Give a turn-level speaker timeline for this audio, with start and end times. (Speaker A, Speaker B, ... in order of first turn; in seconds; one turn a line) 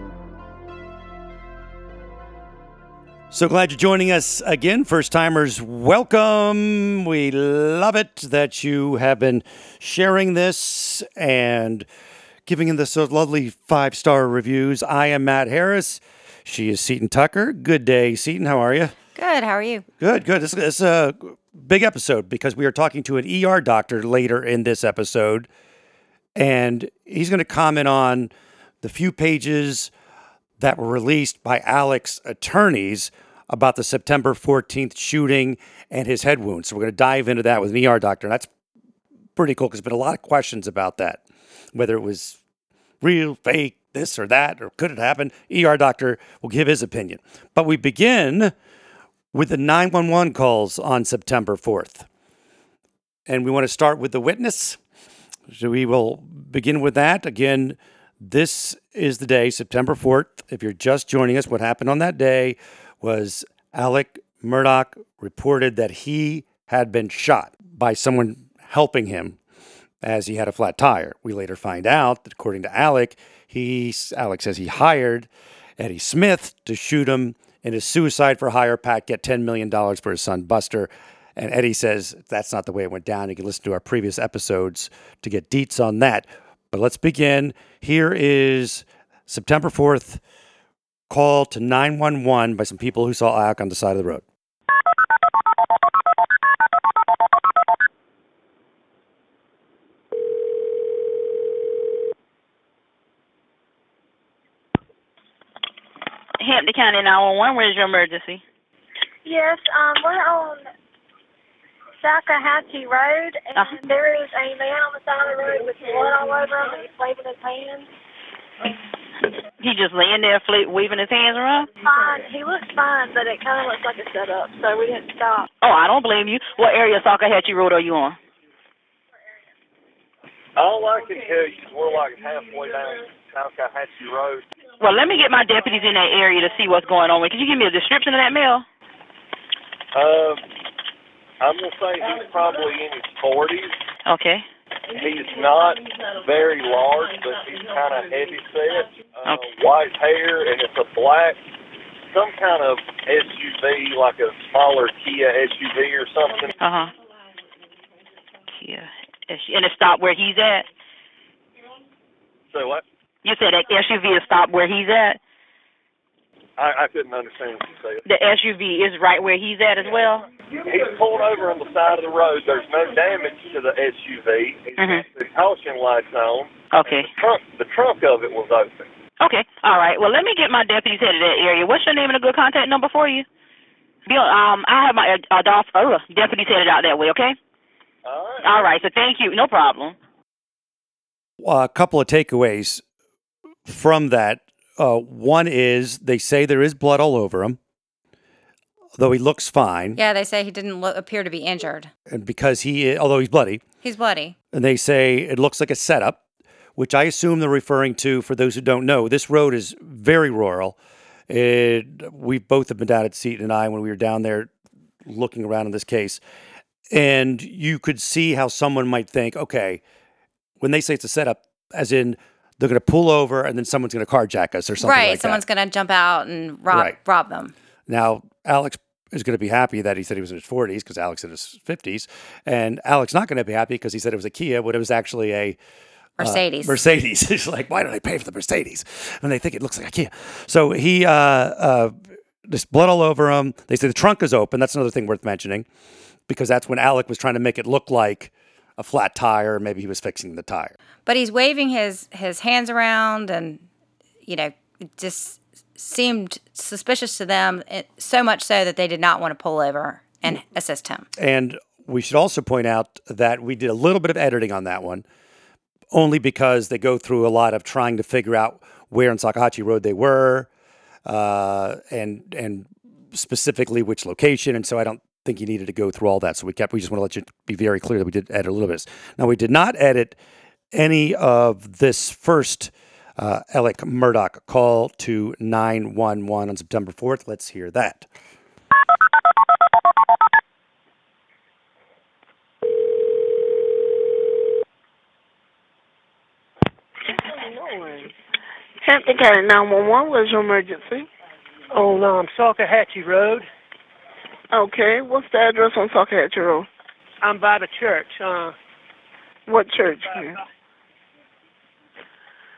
Speaker A: 3.3-11.8
Speaker A: 12.4-18.9
Speaker B: 19.1-19.8
Speaker A: 20.0-25.5
Speaker A: 26.4-28.3
Speaker A: 28.8-29.9
Speaker A: 30.6-38.5
Speaker A: 39.4-41.2
Speaker A: 41.7-42.4
Speaker A: 43.0-48.5
Speaker A: 49.3-52.1
Speaker A: 53.3-54.8
Speaker A: 55.5-69.4
Speaker A: 70.0-90.2
Speaker A: 91.1-94.2
Speaker C: 106.4-108.4
Speaker D: 109.2-110.6
Speaker D: 112.0-117.9
Speaker C: 119.6-121.7
Speaker D: 121.8-125.5
Speaker C: 125.6-128.2
Speaker E: 130.6-134.4
Speaker C: 134.8-138.6
Speaker E: 139.9-140.4
Speaker E: 141.4-143.7
Speaker C: 144.1-144.4
Speaker E: 144.9-151.4
Speaker E: 152.1-156.6
Speaker C: 156.6-156.9
Speaker C: 158.5-160.7
Speaker E: 162.5-162.8
Speaker C: 163.2-165.2
Speaker E: 166.6-168.0
Speaker C: 168.1-170.2
Speaker E: 170.6-178.8
Speaker C: 174.8-175.0
Speaker C: 176.7-177.1
Speaker C: 179.2-183.2
Speaker C: 184.1-187.4
Speaker E: 188.0-188.8
Speaker C: 188.4-189.9
Speaker A: 191.4-192.8
Speaker A: 193.7-197.6
Speaker A: 199.0-200.0
Speaker B: 200.0-201.9
Speaker A: 202.1-203.6
Speaker B: 203.8-204.3
Speaker A: 204.5-206.2
Speaker A: 206.8-210.8
Speaker A: 211.3-214.5
Speaker A: 215.0-216.2
Speaker A: 216.9-219.8
Speaker A: 220.6-225.4
Speaker B: 224.8-227.5
Speaker A: 226.7-226.9
Speaker A: 227.9-235.6
Speaker B: 236.2-236.8
Speaker A: 236.2-241.9
Speaker A: 242.5-245.7
Speaker A: 246.3-250.7
Speaker B: 251.1-253.6
Speaker B: 254.2-261.1
Speaker A: 261.2-265.0
Speaker A: 265.9-270.5
Speaker A: 271.1-280.1
Speaker A: 280.7-288.1
Speaker F: 297.4-298.1
Speaker G: 298.8-301.1
Speaker F: 301.7-303.5
Speaker G: 304.5-306.7
Speaker F: 307.2-308.5
Speaker G: 309.5-310.3